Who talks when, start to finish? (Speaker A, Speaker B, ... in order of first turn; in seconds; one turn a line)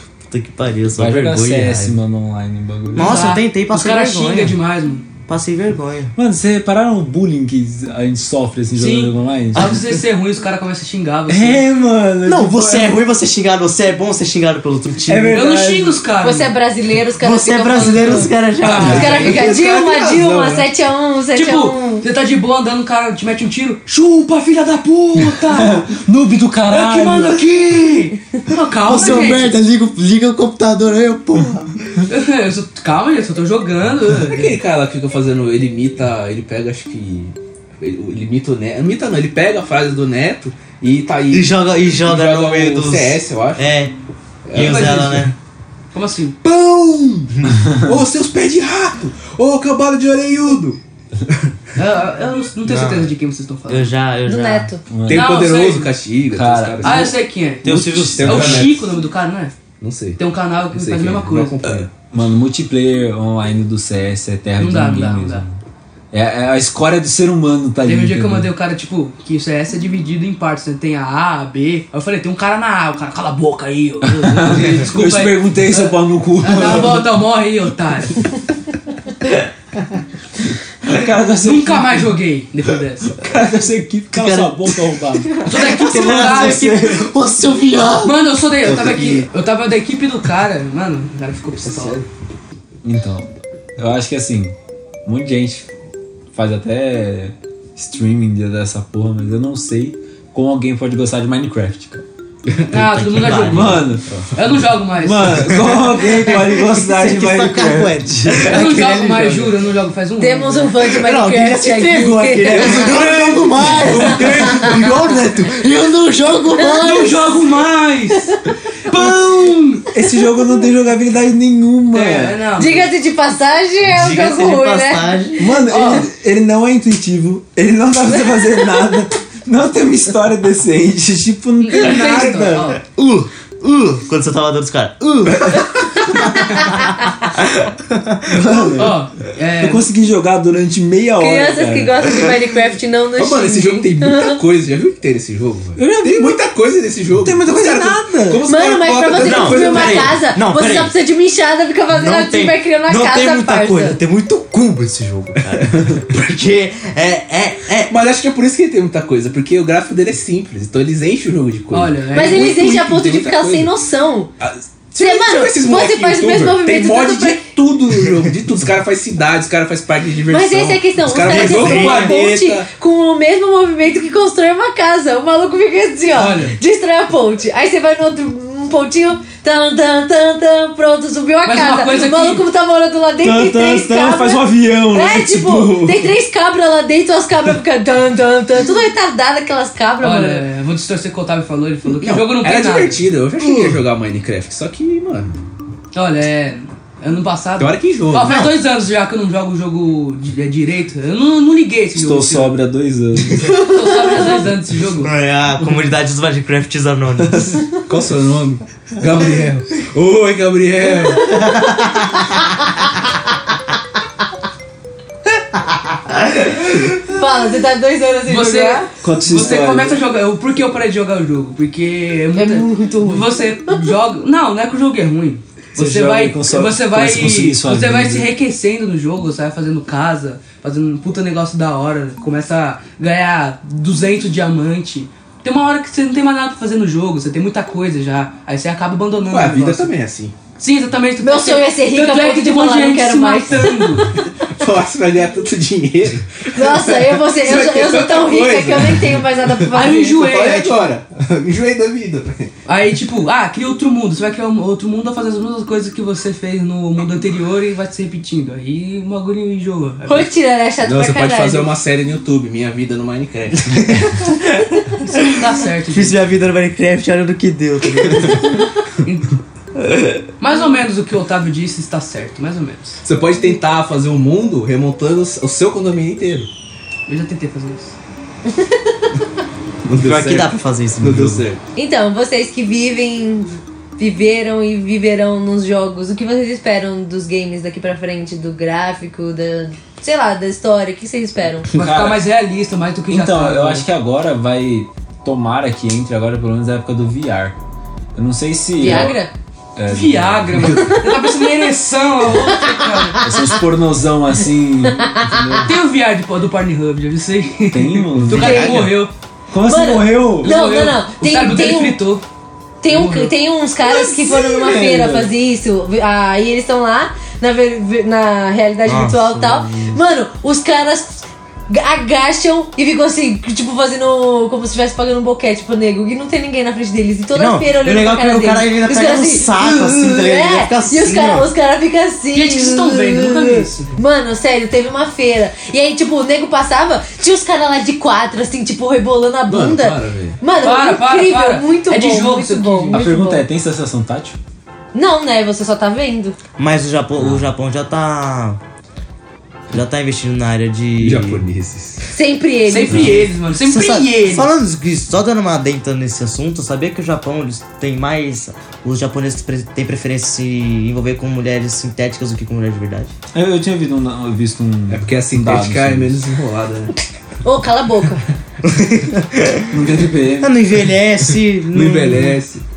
Speaker A: 0.3-2.0
Speaker B: 0.9-3.3
Speaker A: 2.9-4.6
Speaker C: 3.0-5.0
Speaker A: 5.3-6.1
Speaker B: 6.1-9.8
Speaker C: 8.7-11.7
Speaker A: 9.5-9.9
Speaker B: 11.3-13.0
Speaker A: 12.2-15.4
Speaker B: 15.1-16.0
Speaker C: 15.3-16.5
Speaker D: 16.2-22.1
Speaker A: 17.2-19.3
Speaker C: 18.6-19.5
Speaker E: 18.6-20.7
Speaker C: 21.3-26.0
Speaker B: 25.2-27.4
Speaker C: 26.7-29.5
Speaker A: 27.3-28.2
Speaker A: 28.8-32.0
Speaker C: 32.1-34.6
Speaker E: 34.2-43.7
Speaker A: 41.3-43.9
Speaker E: 44.5-45.3
Speaker A: 44.5-45.3
Speaker C: 44.5-45.2
Speaker C: 45.9-46.4
Speaker E: 46.4-51.5
Speaker A: 47.4-47.7
Speaker C: 51.7-53.9
Speaker A: 52.6-53.1
Speaker A: 53.7-54.7
Speaker D: 54.2-54.8
Speaker B: 54.9-55.3
Speaker E: 55.0-57.1
Speaker C: 55.1-55.9
Speaker B: 56.3-57.1
Speaker C: 56.8-59.5
Speaker A: 57.6-58.7
Speaker E: 58.0-58.9
Speaker E: 59.8-61.9
Speaker C: 60.2-61.6
Speaker B: 62.1-65.5
Speaker C: 64.6-65.4
Speaker B: 66.1-68.5
Speaker C: 67.8-78.2
Speaker B: 74.0-77.1
Speaker B: 80.8-82.1
Speaker C: 81.4-83.2
Speaker B: 83.2-85.4
Speaker A: 84.1-89.3
Speaker C: 85.4-87.1
Speaker B: 85.9-86.5
Speaker C: 88.0-92.0
Speaker E: 91.6-92.1
Speaker B: 92.8-95.7
Speaker B: 96.3-102.0
Speaker C: 102.7-105.6
Speaker A: 102.7-104.2
Speaker B: 103.4-104.2
Speaker B: 105.0-108.5
Speaker A: 105.5-109.5
Speaker C: 108.3-110.7
Speaker D: 110.2-113.0
Speaker A: 110.8-117.1
Speaker E: 114.0-114.7
Speaker D: 114.0-114.6
Speaker D: 116.7-117.0
Speaker C: 116.7-119.9
Speaker B: 119.9-122.4
Speaker C: 121.9-122.9
Speaker D: 122.6-125.4
Speaker A: 123.8-125.6
Speaker B: 125.4-132.8
Speaker C: 125.7-126.1
Speaker C: 131.6-132.8
Speaker A: 132.8-138.7
Speaker B: 138.3-139.0
Speaker C: 138.8-139.9
Speaker B: 139.6-142.2
Speaker D: 141.2-144.4
Speaker E: 143.2-150.3
Speaker B: 145.8-146.4
Speaker B: 147.2-148.5
Speaker D: 148.4-154.0
Speaker A: 149.2-150.9
Speaker A: 151.9-158.0
Speaker E: 155.6-156.0
Speaker E: 157.9-163.7
Speaker C: 161.7-162.6
Speaker D: 162.1-164.3
Speaker E: 164.4-172.7
Speaker D: 165.0-167.4
Speaker D: 170.3-190.4
Speaker A: 171.2-172.2
Speaker C: 176.1-176.6
Speaker C: 181.4-182.4
Speaker B: 183.2-186.1
Speaker C: 190.0-193.0
Speaker E: 192.0-195.4
Speaker C: 195.9-202.6
Speaker E: 197.6-198.5
Speaker A: 198.2-198.5
Speaker B: 201.9-203.6
Speaker C: 203.4-205.9
Speaker A: 205.0-207.7
Speaker E: 207.2-211.3
Speaker A: 211.2-212.5
Speaker A: 215.9-216.6
Speaker D: 217.1-218.9
Speaker C: 218.3-239.9
Speaker B: 219.0-220.0
Speaker D: 222.3-223.8
Speaker B: 225.8-228.3
Speaker E: 239.3-240.3
Speaker C: 240.6-244.1
Speaker D: 241.2-244.1
Speaker E: 244.4-252.5
Speaker D: 246.5-250.3
Speaker C: 249.7-250.9
Speaker C: 252.7-260.2
Speaker D: 260.1-261.7
Speaker E: 260.8-264.1
Speaker A: 263.7-268.6
Speaker C: 265.2-266.1
Speaker C: 269.0-269.4
Speaker C: 270.4-273.0
Speaker E: 273.0-276.5
Speaker C: 277.1-277.9
Speaker D: 278.5-278.8
Speaker E: 279.8-281.6
Speaker A: 280.0-281.4
Speaker D: 281.8-291.7
Speaker B: 291.7-292.2
Speaker C: 291.7-293.9
Speaker B: 293.1-297.6
Speaker B: 298.1-299.2
Speaker D: 298.8-299.3
Speaker C: 298.9-299.1
Speaker B: 299.8-300.9
Speaker C: 299.9-303.2
Speaker E: 300.5-301.0
Speaker B: 303.2-305.7
Speaker E: 305.3-305.7
Speaker C: 305.6-309.1
Speaker B: 307.7-308.9
Speaker D: 308.3-308.9
Speaker A: 308.3-308.9
Speaker B: 309.5-310.6
Speaker D: 309.6-312.0
Speaker C: 310.4-312.2
Speaker D: 312.8-343.4
Speaker C: 312.9-313.3
Speaker B: 313.8-315.3
Speaker A: 318.8-319.3
Speaker B: 319.3-320.0
Speaker A: 327.3-331.4
Speaker C: 332.3-333.9
Speaker E: 339.5-340.4
Speaker C: 340.6-343.0
Speaker B: 342.9-344.4
Speaker D: 344.9-346.4
Speaker A: 346.6-348.6
Speaker E: 347.2-347.4
Speaker A: 349.7-351.4
Speaker E: 351.0-352.1
Speaker D: 352.1-353.1
Speaker C: 352.6-354.5
Speaker A: 353.0-363.1
Speaker B: 363.3-366.2
Speaker E: 364.9-366.9
Speaker D: 367.4-368.2
Speaker A: 368.6-369.8
Speaker B: 369.7-370.5
Speaker A: 370.4-372.4
Speaker E: 371.7-372.6